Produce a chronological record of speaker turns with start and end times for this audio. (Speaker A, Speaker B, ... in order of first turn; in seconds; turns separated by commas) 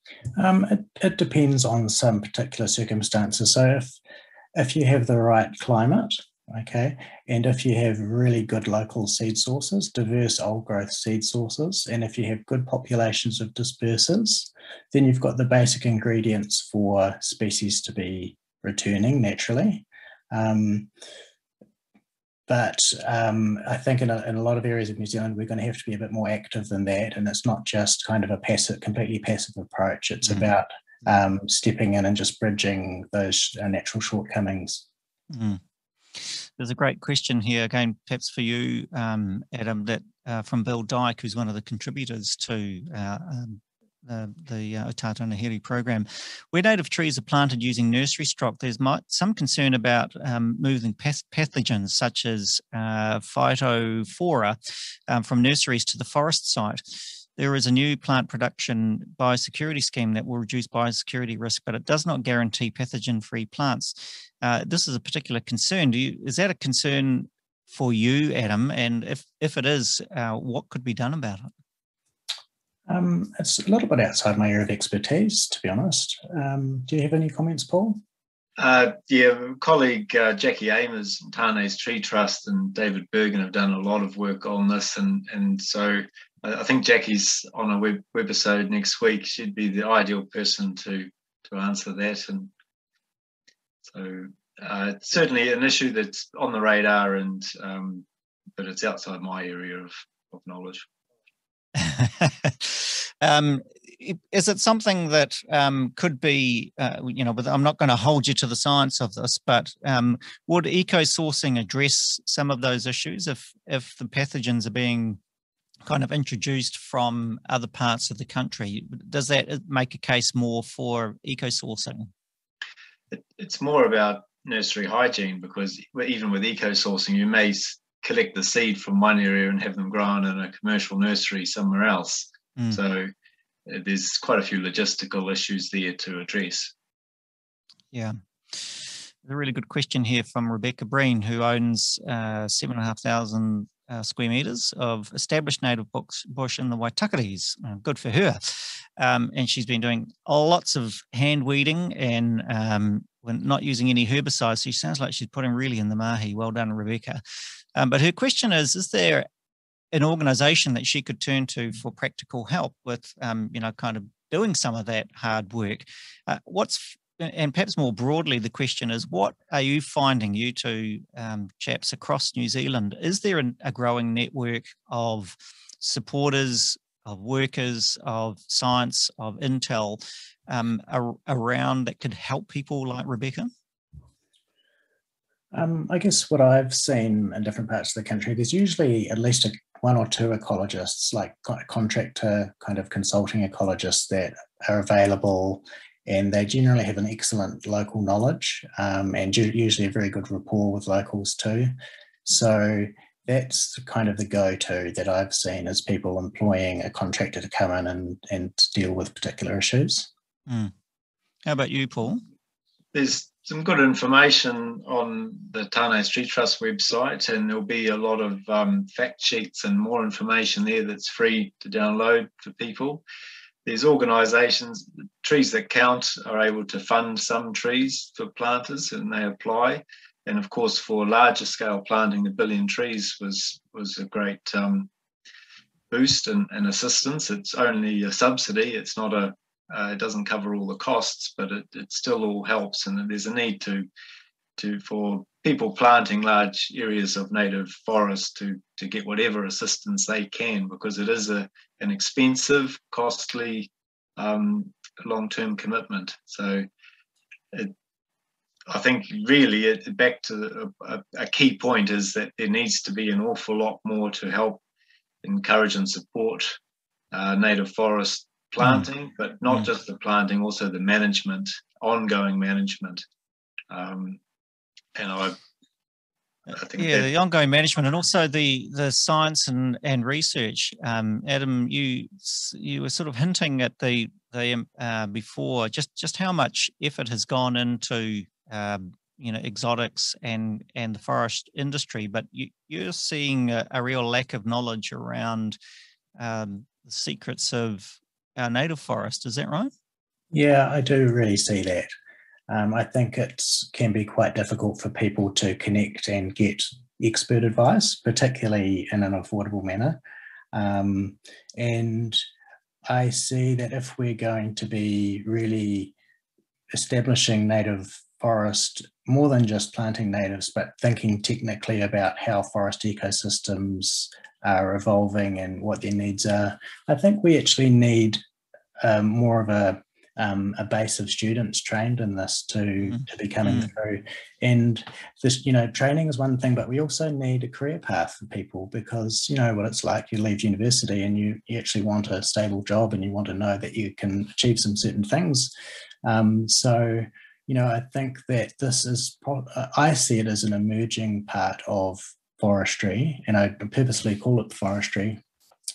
Speaker A: 0.4-4.0, Speaker A: 4.5-20.9, Speaker A: 22.5-34.9, Speaker B: 30.2-30.5, Speaker B: 35.3-35.6, Speaker B: 36.1-54.6, Speaker B: 55.1-71.5, Speaker A: 72.9-78.0, Speaker C: 78.6-92.5, Speaker C: 93.8-98.0, Speaker C: 98.6-100.9, Speaker B: 101.8-115.2, Speaker B: 115.8-122.1, Speaker C: 123.1-133.1, Speaker C: 133.7-136.7, Speaker B: 137.9-157.2, Speaker B: 157.7-159.3, Speaker B: 159.9-183.5, Speaker A: 185.5-201.7, Speaker A: 202.2-210.1, Speaker B: 210.5-210.7, Speaker B: 211.4-212.2, Speaker C: 212.9-223.0, Speaker C: 223.7-234.9, Speaker C: 235.9-243.9, Speaker C: 244.6-256.7, Speaker C: 258.7-264.6, Speaker C: 265.2-266.6, Speaker C: 267.1-273.0, Speaker B: 268.6-268.9, Speaker C: 273.7-274.2, Speaker C: 274.9-275.4, Speaker C: 276.5-277.1, Speaker B: 276.7-295.6, Speaker B: 296.2-299.7, Speaker A: 300.3-301.9, Speaker A: 302.5-310.0, Speaker A: 310.5-312.2, Speaker A: 312.9-315.9, Speaker A: 316.7-328.2, Speaker A: 328.8-345.5, Speaker B: 332.9-333.7, Speaker A: 346.0-355.2